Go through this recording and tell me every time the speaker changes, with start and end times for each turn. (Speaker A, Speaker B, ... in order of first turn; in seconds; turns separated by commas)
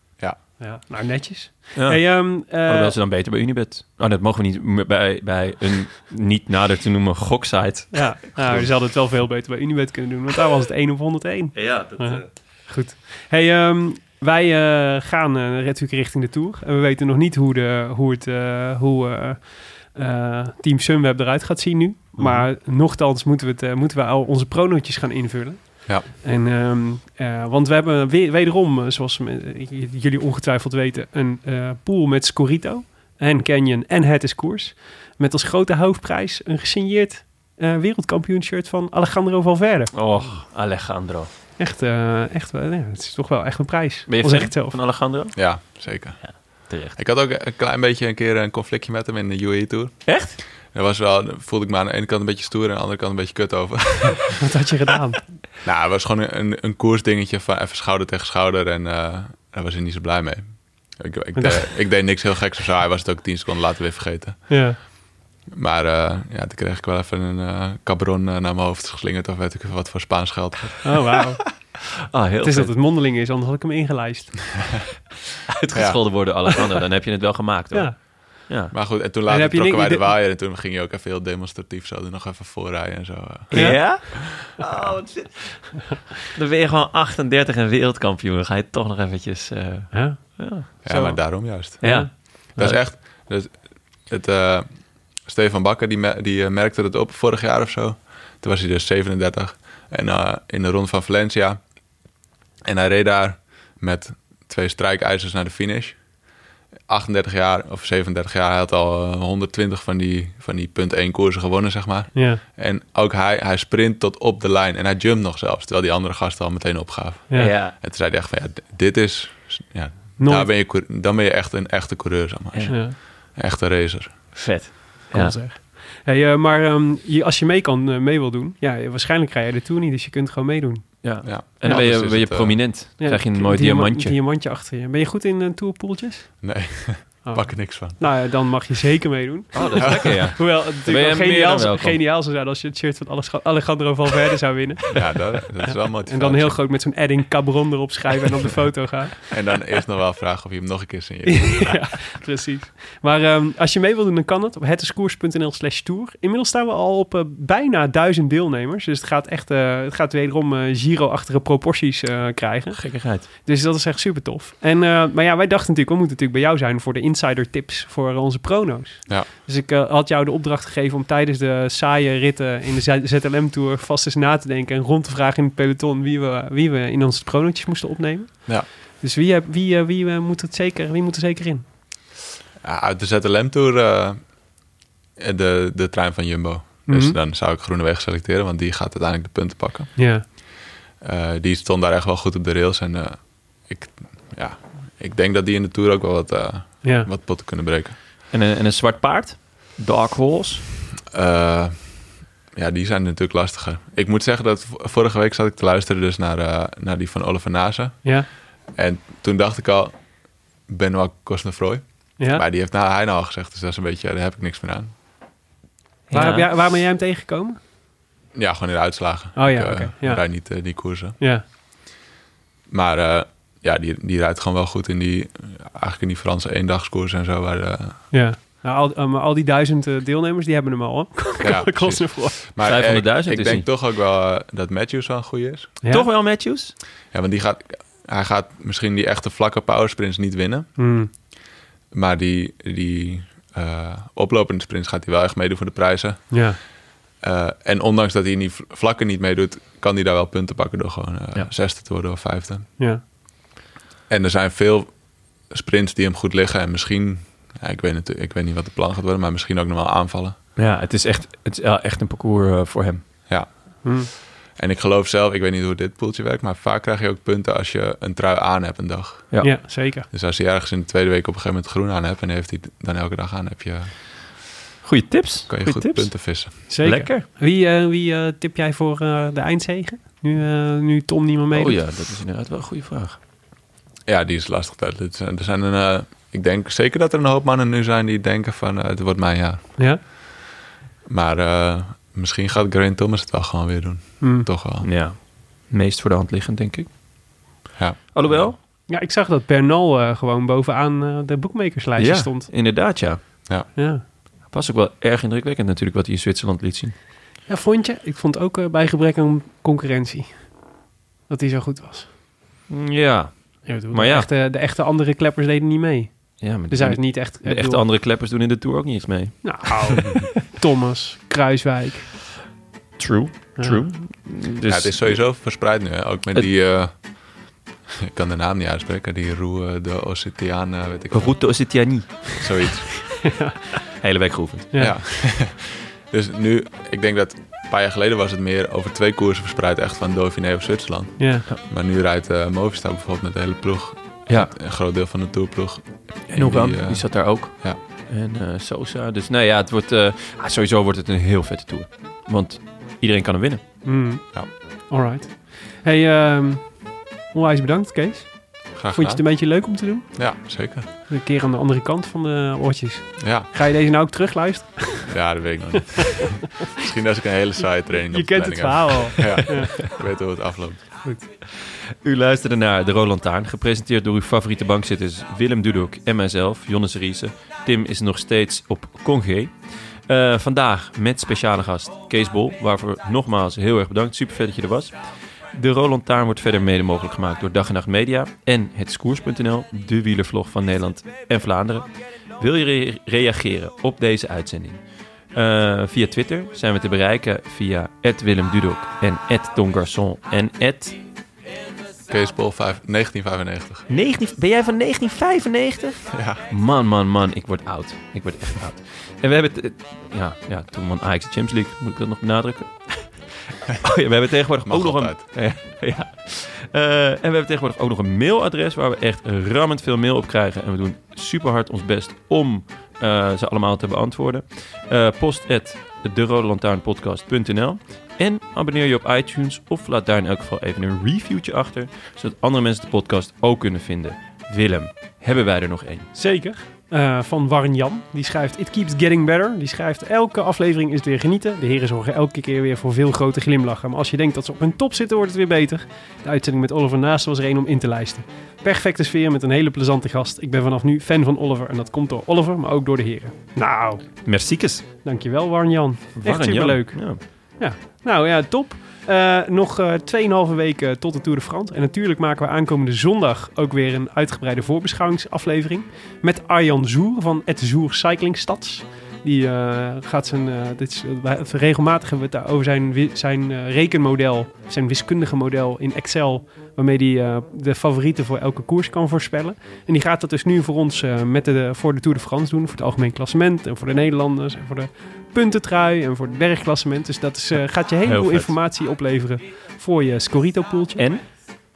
Speaker A: 0.6-3.0, Speaker B: 1.8-8.7, Speaker A: 7.9-40.2, Speaker B: 11.5-12.3, Speaker B: 39.9-41.3, Speaker A: 41.6-44.8, Speaker B: 44.1-45.6, Speaker C: 45.3-54.4, Speaker B: 46.2-47.0, Speaker B: 50.0-50.4, Speaker A: 54.4-55.2, Speaker C: 55.6-64.6, Speaker A: 61.3-61.6, Speaker A: 64.5-64.8, Speaker C: 65.5-70.9, Speaker A: 70.8-71.7, Speaker B: 72.1-72.7, Speaker A: 72.4-74.8, Speaker B: 75.6-78.7, Speaker C: 75.7-76.1, Speaker C: 78.7-84.2, Speaker A: 79.3-80.2, Speaker A: 83.5-84.0, Speaker B: 83.5-90.7, Speaker A: 89.9-91.2, Speaker C: 90.8-94.7, Speaker A: 91.8-92.1, Speaker B: 91.8-92.8, Speaker C: 95.2-101.6, Speaker C: 102.6-106.0, Speaker C: 106.9-124.2, Speaker A: 112.1-112.4, Speaker B: 117.3-117.7, Speaker A: 120.2-120.5, Speaker A: 122.7-123.0, Speaker B: 124.3-125.4, Speaker A: 125.1-131.0, Speaker B: 131.0-134.2, Speaker C: 131.2-132.7, Speaker A: 133.0-136.4, Speaker C: 136.4-138.1, Speaker A: 137.2-149.3, Speaker B: 139.5-142.0, Speaker C: 139.8-140.1, Speaker C: 144.9-146.6, Speaker C: 149.3-152.0, Speaker A: 151.2-181.6, Speaker B: 162.7-163.3, Speaker C: 182.6-184.3, Speaker C: 185.2-197.9, Speaker A: 186.9-187.2, Speaker A: 189.9-190.2, Speaker A: 196.8-197.1, Speaker B: 198.3-200.6, Speaker C: 201.1-208.2, Speaker C: 208.7-210.0, Speaker C: 210.7-214.9, Speaker B: 216.1-216.5, Speaker A: 216.1-217.6, Speaker C: 218.3-221.2, Speaker A: 219.3-220.4, Speaker C: 222.7-228.1, Speaker A: 228.1-232.4, Speaker C: 231.4-235.7, Speaker B: 232.6-233.7, Speaker A: 235.8-236.1, Speaker B: 235.9-236.7, Speaker C: 237.1-240.7, Speaker A: 240.8-241.1, Speaker C: 241.9-246.5, Speaker A: 246.3-246.6, Speaker C: 247.2-252.7, Speaker C: 254.1-254.9, Speaker C: 255.5-260.4, Speaker B: 260.6-263.0, Speaker C: 263.3-273.9, Speaker A: 263.8-264.1, Speaker A: 269.4-270.1, Speaker B: 274.8-277.2, Speaker C: 275.5-276.5, Speaker A: 276.7-281.8, Speaker B: 281.5-283.2, Speaker C: 284.1-290.2, Speaker C: 291.1-294.9, Speaker A: 294.2-294.5, Speaker B: 294.8-296.9, Speaker C: 297.8-298.6, Speaker B: 298.1-298.6, Speaker A: 298.9-302.5, Speaker B: 302.0-303.7, Speaker A: 303.8-304.0, Speaker B: 304.4-306.9, Speaker A: 307.5-310.6, Speaker A: 311.3-312.1, Speaker B: 312.7-314.3, Speaker A: 313.6-317.8, Speaker B: 316.4-320.2, Speaker A: 319.4-322.1, Speaker B: 323.0-325.3, Speaker C: 324.6-331.7, Speaker B: 331.1-332.7, Speaker C: 332.4-333.2, Speaker A: 333.2-333.6, Speaker B: 333.9-334.7, Speaker C: 334.7-347.8, Speaker A: 341.2-341.4, Speaker B: 344.3-344.5, Speaker B: 346.3-353.6, Speaker A: 353.8-360.4, Speaker C: 358.8-360.9, Speaker A: 361.1-365.3, Speaker C: 363.2-363.5, Speaker C: 365.1-371.0, Speaker A: 368.1-369.8, Speaker B: 371.5-385.0, Speaker B: 385.5-394.8, Speaker B: 395.3-401.0, Speaker C: 402.1-403.9, Speaker B: 403.9-436.1, Speaker C: 406.1-406.4, Speaker C: 414.6-415.2, Speaker A: 436.1-454.3, Speaker B: 454.2-454.9, Speaker A: 455.0-491.1, Speaker B: 456.2-457.2, Speaker B: 488.0-488.6, Speaker B: 491.0-491.3